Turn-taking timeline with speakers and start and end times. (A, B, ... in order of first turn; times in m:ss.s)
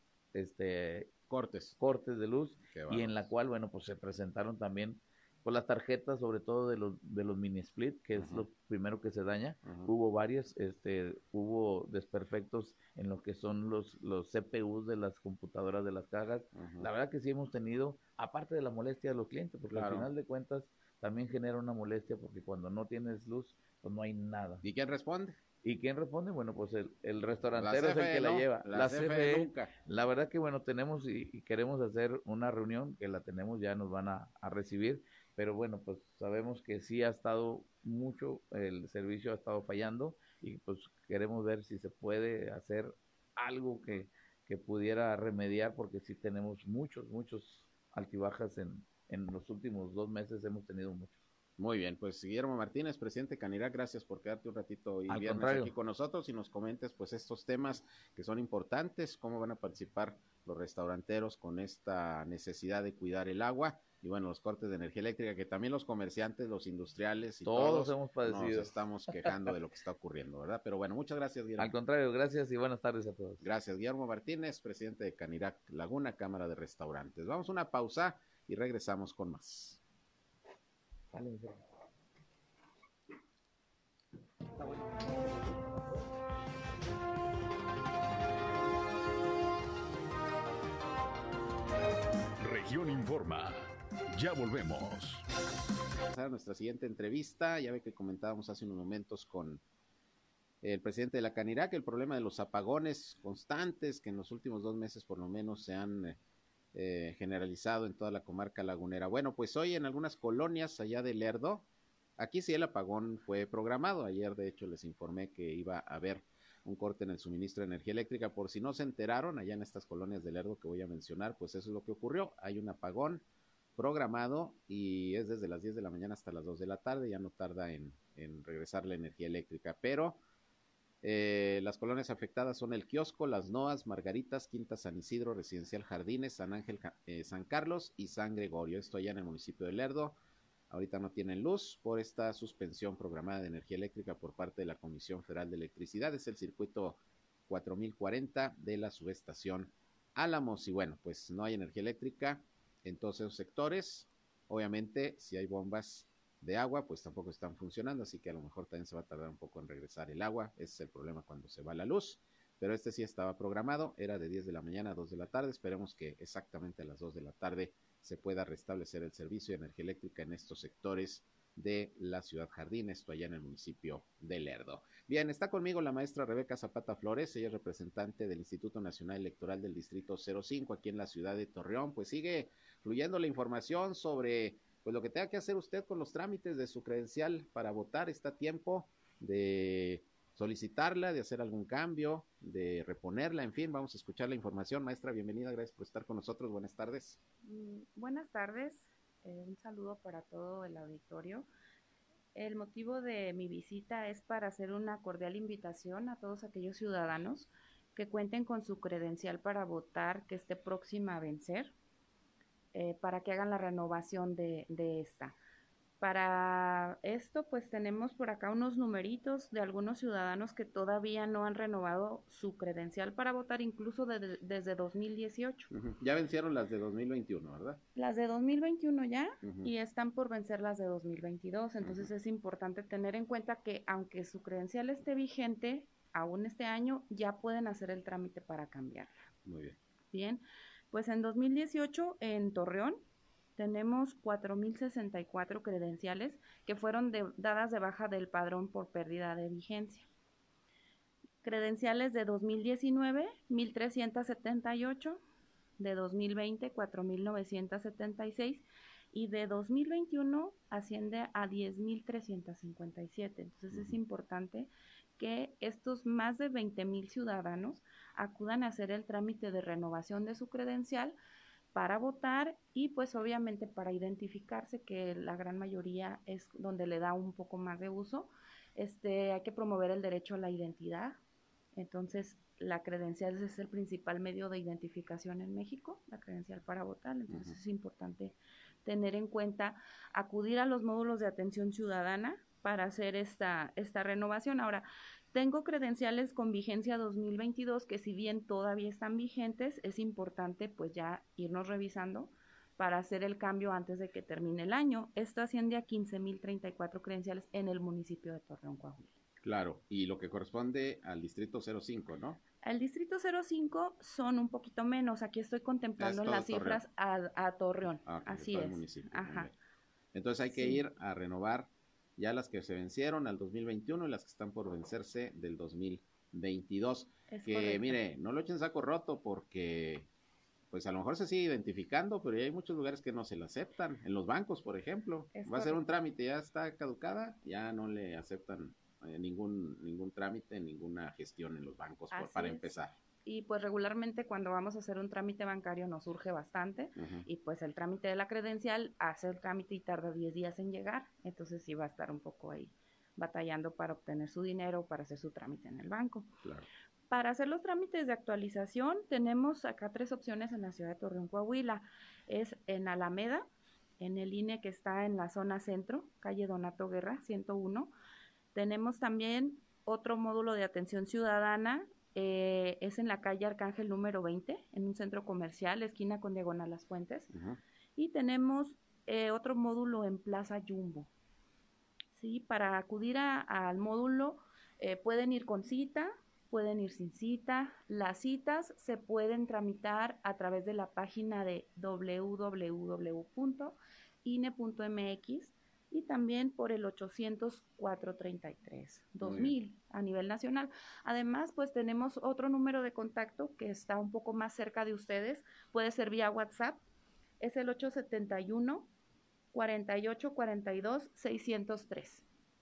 0:00.3-0:01.1 A
0:01.3-0:01.8 B
0:01.8-0:24.6 A
0:02.7-0:03.3 B
0:08.2-0:08.5 B
0:09.6-0:09.9 B
0:16.6-0:16.9 B
0:19.7-0:20.1 B
0:24.6-0:25.4 B
0:25.6-0:51.2 A
0:27.5-0:29.7 B
0:51.6-1:11.8 B
0:55.1-0:55.7 A
1:07.4-1:09.4 A
1:11.6-1:13.4 A
1:13.4-1:19.8 B
1:21.1-1:21.6 A
1:24.6-1:25.7 A
1:32.4-1:35.2 C
1:36.1-1:39.6 B
1:40.6-1:46.2 B
1:46.7-1:51.7 B
1:52.2-2:03.2 B
2:03.8-2:10.2 B
2:11.0-2:20.2 B
2:20.7-3:17.2 B
3:17.4-3:21.5 D
3:22.4-3:31.7 D
3:32.7-3:35.4 D
3:36.0-3:45.7 D
3:45.7-3:47.8 B
3:48.0-3:59.1 D
3:49.4-3:49.7 B
3:51.8-3:52.1 B
3:59.4-3:59.8 B
4:00.1-4:03.0 D
4:03.6-4:10.1 D
4:11.4-4:15.2 D
4:15.8-4:31.2 D
4:23.7-4:24.0 B
4:31.7-4:41.2 D
4:41.8-5:09.1 D
5:09.4-5:12.4 B
5:12.6-5:19.5 D
5:16.0-5:16.8 B
5:18.1-5:19.5 B
5:20.1-5:30.1 B
5:20.5-5:20.8 D
5:27.3-5:28.0 D
5:30.7-5:43.0 B
5:35.3-5:35.8 D
5:42.1-5:56.3 D
5:47.0-5:47.3 B
5:57.1-6:03.5 D
6:04.0-6:07.9 D
6:08.5-6:17.3 D
6:17.3-6:17.6 B
6:18.0-6:21.1 D
6:22.2-6:46.8 D
6:39.2-6:39.5 B
6:47.4-6:48.9 D
6:49.5-6:52.2 D